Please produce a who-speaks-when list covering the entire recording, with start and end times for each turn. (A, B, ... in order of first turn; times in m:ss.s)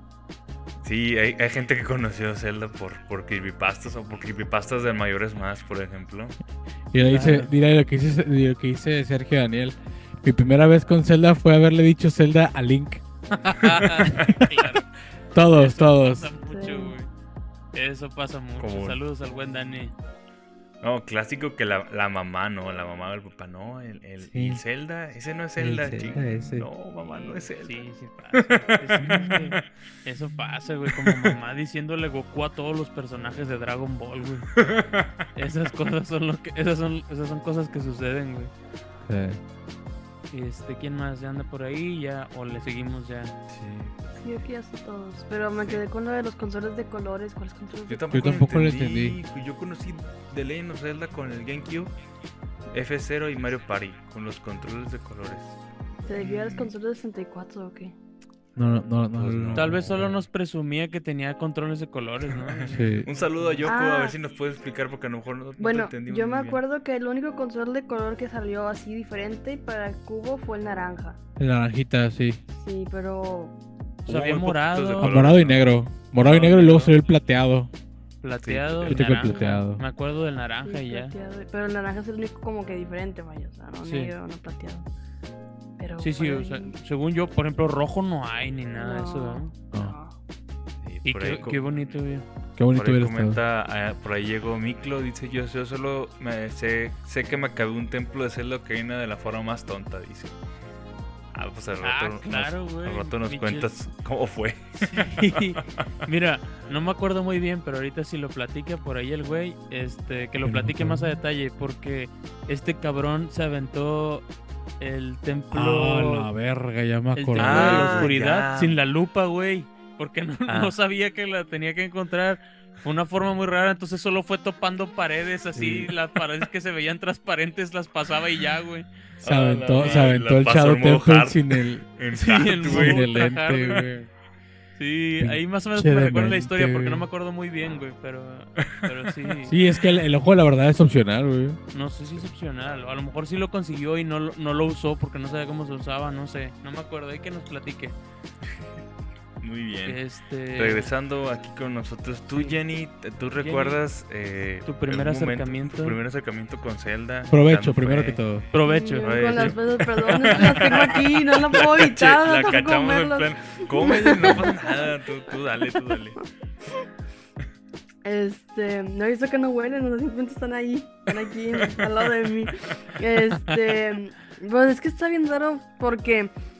0:00.8-0:06.4 A
0:06.9-0:13.0 B
0:07.0-0:07.5 C
0:13.4-0:14.8 C
0:13.7-0:14.8 B
0:13.8-0:14.3 A
0:15.3-0:16.3 B
0:15.5-0:17.1 C
0:16.5-0:17.0 D
0:17.7-0:19.9 C
0:18.6-0:19.0 A
0:20.8-0:29.4 A
0:24.3-0:24.6 B
0:25.6-0:26.7 B
0:27.1-0:34.5 C
0:29.0-0:29.4 B
0:31.0-0:31.3 A
0:34.6-0:35.1 A
0:35.4-0:38.5 C
0:39.0-0:39.4 B
0:40.3-0:43.4 C
0:43.5-0:44.0 A
0:44.2-0:48.2 D
0:47.9-0:51.9 A
0:48.1-0:49.2 B
0:52.7-0:55.6 A
0:56.0-0:57.9 D
0:56.2-0:56.7 A
0:58.6-1:00.1 B
0:59.2-0:59.8 A
0:59.5-1:03.7 C
1:02.6-1:06.6 A
1:02.7-1:03.1 B
1:03.6-1:04.2 D
1:05.6-1:11.2 D
1:11.4-1:12.4 B
1:12.5-1:13.5 D
1:14.0-1:15.2 C
1:14.1-1:15.8 A
1:15.0-1:17.7 B
1:16.2-1:16.9 C
1:18.2-1:21.1 C
1:18.4-1:19.1 A
1:18.8-1:19.8 B
1:19.2-1:19.6 D
1:20.6-1:24.9 D
1:23.8-1:24.1 C
1:25.8-1:26.7 D
1:26.0-1:29.5 C
1:28.8-1:30.2 D
1:30.8-1:31.8 A
1:31.0-1:32.2 C
1:32.6-1:33.4 B
1:32.7-1:40.4 A
1:41.3-1:45.4 A
1:41.8-1:43.7 C
1:44.8-1:54.2 C
1:50.4-1:51.2 B
1:54.8-1:56.3 C
1:55.5-1:58.1 B
1:57.1-2:08.9 C
1:57.4-1:58.8 A
2:00.5-2:00.7 A
2:05.6-2:05.9 B
2:09.2-2:11.8 B
2:09.2-2:13.3 A
2:09.8-2:10.1 C
2:12.1-2:13.9 C
2:12.6-2:14.1 B
2:14.8-2:19.6 C
2:15.2-2:17.1 B
2:18.6-2:18.8 A
2:19.4-2:21.6 B
2:21.7-2:28.0 C
2:29.4-2:30.0 A
2:29.8-2:30.9 C
2:30.5-2:38.2 A
2:32.3-2:32.6 C
2:33.4-2:33.8 C
2:34.6-2:36.0 C
2:37.3-2:38.4 B
2:38.5-2:39.6 C
2:38.6-2:44.9 D
2:39.0-2:46.2 A
2:40.2-2:40.9 C
2:48.0-2:56.3 D
2:51.5-2:52.5 A